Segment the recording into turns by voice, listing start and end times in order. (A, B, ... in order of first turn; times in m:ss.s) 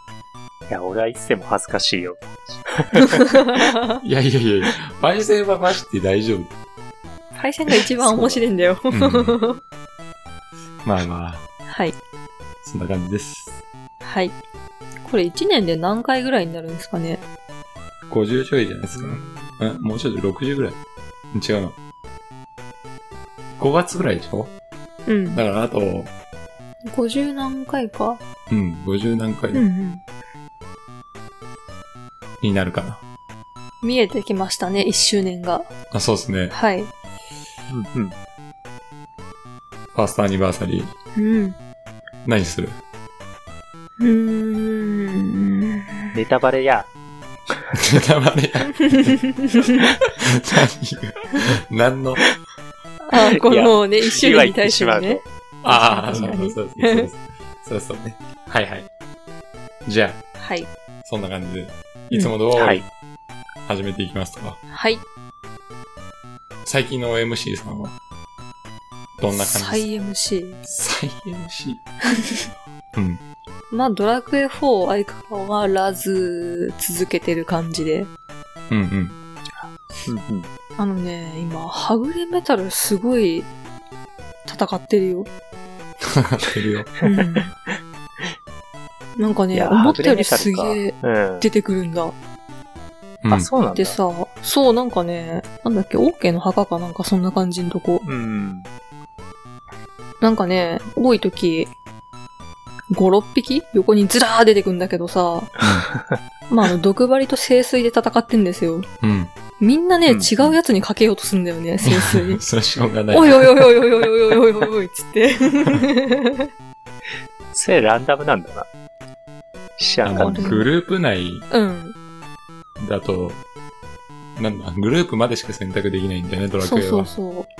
0:00.7-0:03.2 A
0:03.1-0:04.0 B
0:04.0-0:06.5 C
0:07.4-0:09.6 B
0:08.0-0:08.4 A
0:08.9-0:09.4 C
0:10.8-0:11.4 C
0:11.7-0:12.0 B
0:12.6-0:13.6 C
0:14.0-0:14.4 B
0:15.0-0:17.2 B
0:18.1-0:20.8 C
0:19.0-0:19.6 A
0:21.3-0:21.8 C
0:23.6-0:24.5 C
0:25.1-0:25.4 B
0:25.3-0:26.1 C
0:26.9-0:28.2 B
0:28.5-0:29.6 C
0:29.5-0:30.0 B
0:32.4-0:33.0 C
0:33.8-0:35.7 B
0:35.9-0:36.5 C
0:36.5-0:36.9 B
0:37.7-0:38.2 A
0:40.0-0:40.9 C
0:41.2-0:41.6 B
0:42.2-0:42.8 C
0:44.0-0:46.1 B
0:46.1-0:46.9 A
0:47.7-0:49.3 C
0:48.9-0:49.7 B
0:50.0-0:52.3 C
0:53.1-0:57.1 B
0:53.2-0:55.2 A
0:55.6-0:58.9 C
0:56.1-0:56.4 A
0:59.9-1:00.2 C
1:00.4-1:00.7 B
1:01.0-1:02.8 C
1:02.6-1:02.8 A
1:03.7-1:04.6 C
1:04.7-1:05.0 B
1:06.6-1:08.0 C
1:09.2-1:09.9 C
1:09.3-1:10.6 B
1:10.6-1:11.8 C
1:12.2-1:12.4 B
1:13.0-1:13.2 C
1:13.7-1:18.1 B
1:18.7-1:19.2 C
1:20.0-1:20.5 A
1:20.8-1:23.5 B
1:24.5-1:25.3 B
1:26.0-1:26.9 C
1:27.0-1:27.5 B
1:29.2-1:32.2 B
1:29.5-1:31.5 A
1:33.2-1:33.5 C
1:33.3-1:34.0 A
1:33.7-1:38.1 B
1:38.0-1:38.7 A
1:40.2-1:41.7 B
1:42.9-1:45.5 B
1:45.6-1:45.9 C
1:45.6-1:46.2 A
1:46.5-1:48.9 B
1:49.0-1:49.3 C
1:49.6-1:52.4 B
1:50.1-1:50.4 A
1:51.8-1:53.7 C
1:53.1-1:56.5 B
1:57.5-1:58.7 A
1:59.8-2:00.6 A
2:00.0-2:00.7 B
2:00.0-2:01.5 C
2:01.5-2:02.0 B
2:02.8-2:03.4 C
2:04.4-2:07.1 C
2:06.6-2:07.5 B